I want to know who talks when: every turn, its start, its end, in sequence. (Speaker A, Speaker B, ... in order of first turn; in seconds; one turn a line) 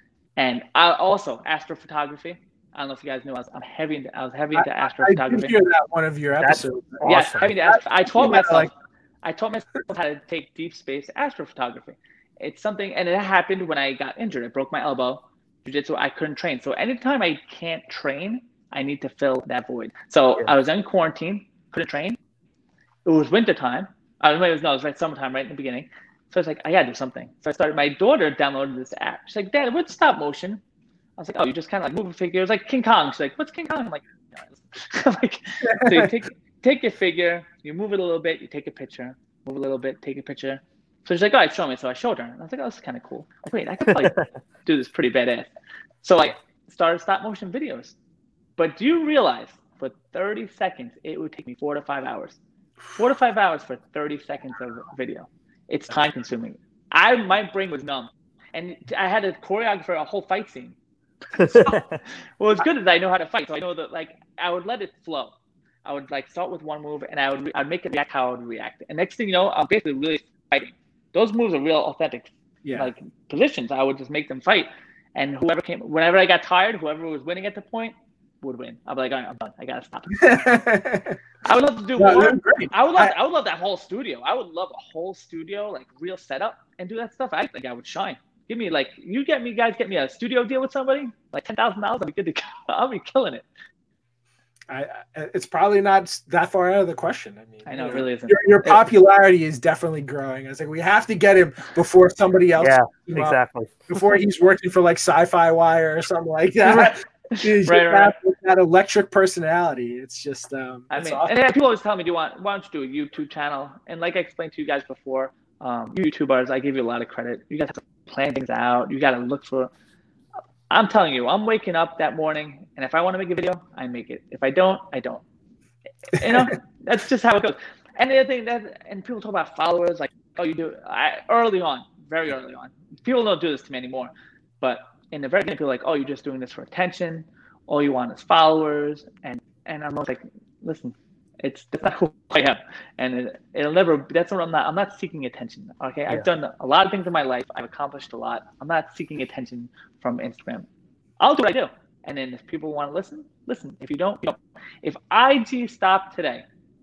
Speaker A: 0.4-5.5
Speaker B: 4.5-7.0
Speaker C: 6.4-7.6
Speaker A: 7.0-8.7
Speaker B: 7.7-8.7
Speaker A: 9.2-22.2
Speaker A: 23.1-30.6
Speaker A: 31.2-45.5
Speaker B: 35.6-36.1
Speaker C: 44.0-44.2
Speaker A: 46.0-48.0
Speaker A: 48.6-52.4
Speaker A: 53.0-60.8
Speaker C: 61.4-61.9
Speaker A: 61.4-61.8
Speaker A: 62.4-65.3
Speaker A: 65.8-80.5
Speaker B: 72.6-72.9
Speaker B: 80.1-81.2
Speaker A: 81.5-93.5
Speaker B: 82.0-83.1
Speaker B: 94.7-103.4
Speaker A: 97.7-98.8
Speaker C: 102.6-104.0
Speaker B: 103.9-111.3
Speaker A: 106.7-108.2
Speaker A: 110.9-119.7
Speaker A: 120.7-125.2
Speaker A: 126.1-150.7
Speaker A: 151.2-156.4